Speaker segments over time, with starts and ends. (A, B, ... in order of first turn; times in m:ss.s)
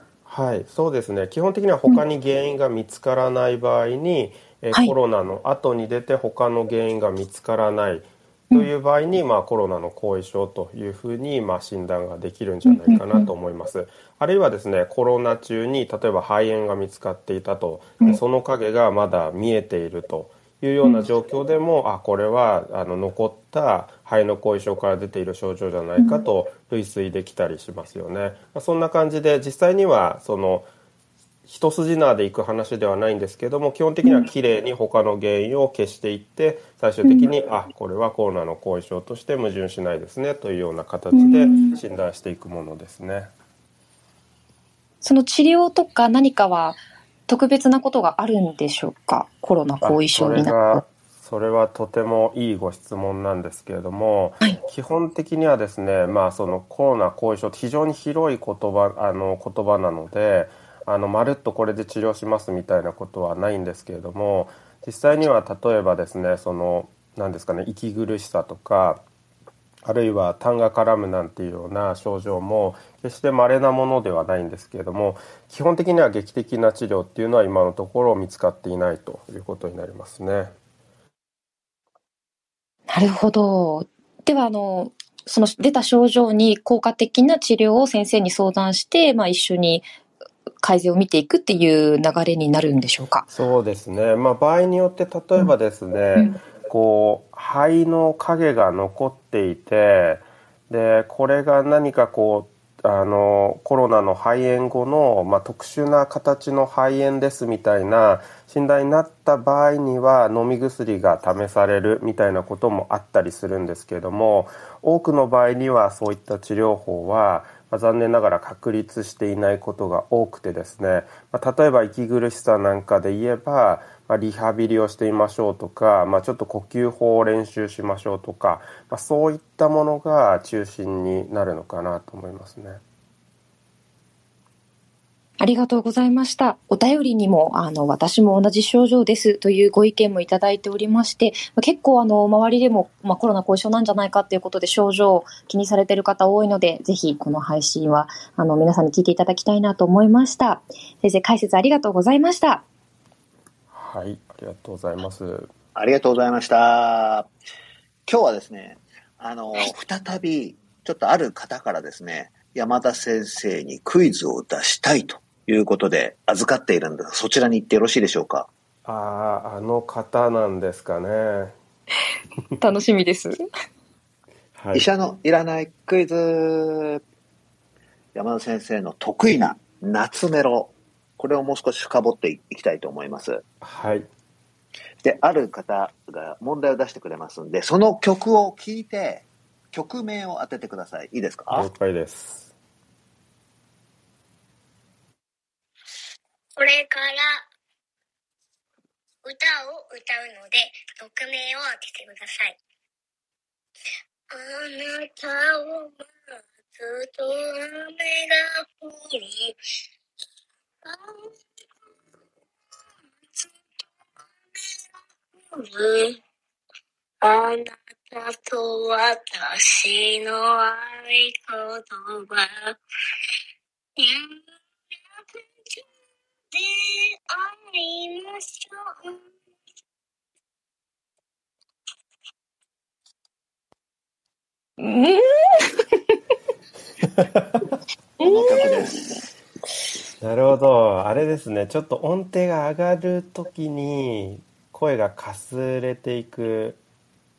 0:00.2-0:30.7 A
0:12.6-0:13.3 B
0:20.8-0:21.1 B
0:26.0-0:26.2 B
0:31.4-0:43.3 A
0:37.0-0:37.3 B
0:41.1-0:41.8 B
0:45.0-0:50.8 B
0:49.8-1:09.0 A
1:09.8-1:20.5 A
1:22.9-1:29.9 B
1:30.6-1:33.3 B
1:33.3-2:12.8 A
2:15.4-2:32.6 B
2:33.7-2:35.5 A
2:35.8-2:37.3 C
2:38.1-2:48.5 C
2:48.8-2:51.6 A
2:52.6-2:53.4 B
2:54.5-2:54.8 A
2:54.7-2:57.0 C
2:58.1-3:03.4 C
3:03.6-3:04.1 A
3:05.0-3:11.7 C
3:11.5-3:12.5 A
3:16.6-3:17.4 D
3:19.2-3:22.6 D
3:24.3-3:26.0 D
3:26.8-3:29.6 D
3:30.8-3:31.3 D
3:34.5-3:34.9 D
3:35.5-3:36.2 D
3:37.2-3:42.8 D
3:44.0-3:44.4 D
3:46.5-3:49.2 D
3:54.8-3:56.2 B
3:57.0-3:57.6 A
3:58.2-3:59.2 C
3:58.2-3:59.0 B
4:00.2-4:06.8 A